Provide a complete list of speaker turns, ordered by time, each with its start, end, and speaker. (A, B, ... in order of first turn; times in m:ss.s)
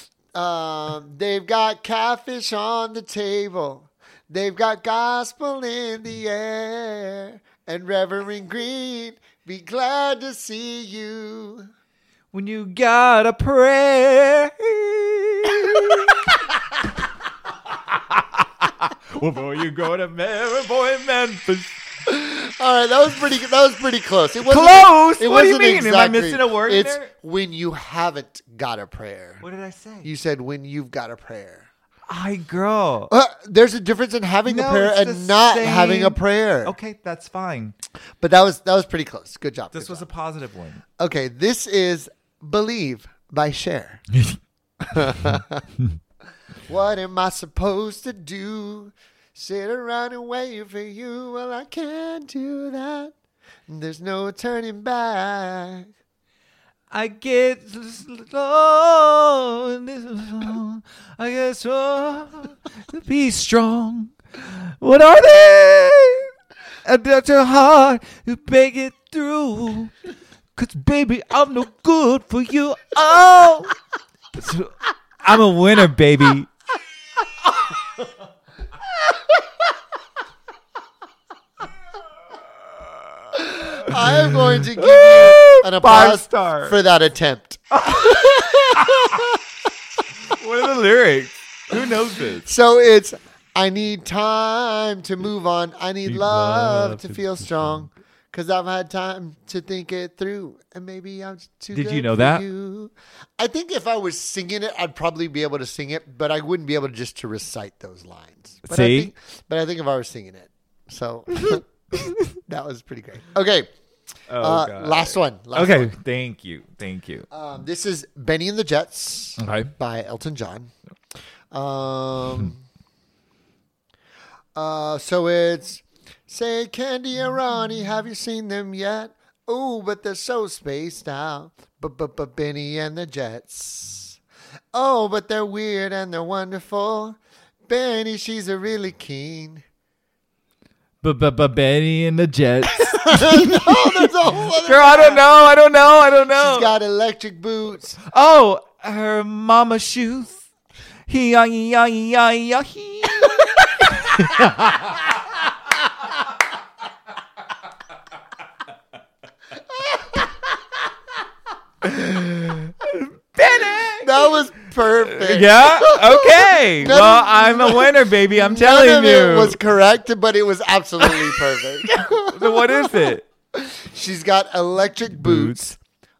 0:00.3-0:11.7 A
0:12.3-0:16.5 B
0:17.7-0:21.8 B
0:22.1-0:29.5 A
0:24.4-0:27.1 B
0:29.4-0:30.1 B
0:30.0-0:31.7 A
0:32.1-0:33.1 B
0:33.1-0:36.8 A
0:34.5-0:37.8 B
0:38.2-0:40.1 A
0:39.7-0:40.8 B
0:41.0-0:44.0 A
0:44.8-0:45.7 A
0:45.4-0:46.0 B
0:46.7-0:53.1 A
0:53.7-0:55.9 A
0:56.9-1:06.3 B
1:06.8-1:10.0 B
1:10.6-1:13.8 B
1:14.4-1:16.5 B
1:23.4-1:29.4 A
1:23.8-1:26.8 B
1:27.8-1:29.2 B
1:30.3-1:32.5 B
1:32.4-1:51.6 A
1:36.1-1:37.8 B
1:41.7-1:42.4 B
1:48.7-1:49.1 B
1:51.5-1:52.2 B
1:52.4-1:53.7 A
1:54.3-1:57.3 B
1:54.4-1:55.9 A
1:57.3-2:00.7 A
1:59.4-1:59.7 B
2:01.5-2:02.6 A
2:04.6-2:14.2 A
2:14.7-2:19.6 A
2:21.0-2:26.8 B
2:22.7-2:25.2 A
2:26.3-2:28.0 A
2:28.0-2:30.4 B
2:31.1-2:35.4 B
2:41.8-2:44.4 B
2:44.0-2:55.8 A
2:45.0-2:49.6 B
2:51.0-2:53.2 B
2:55.1-2:55.7 B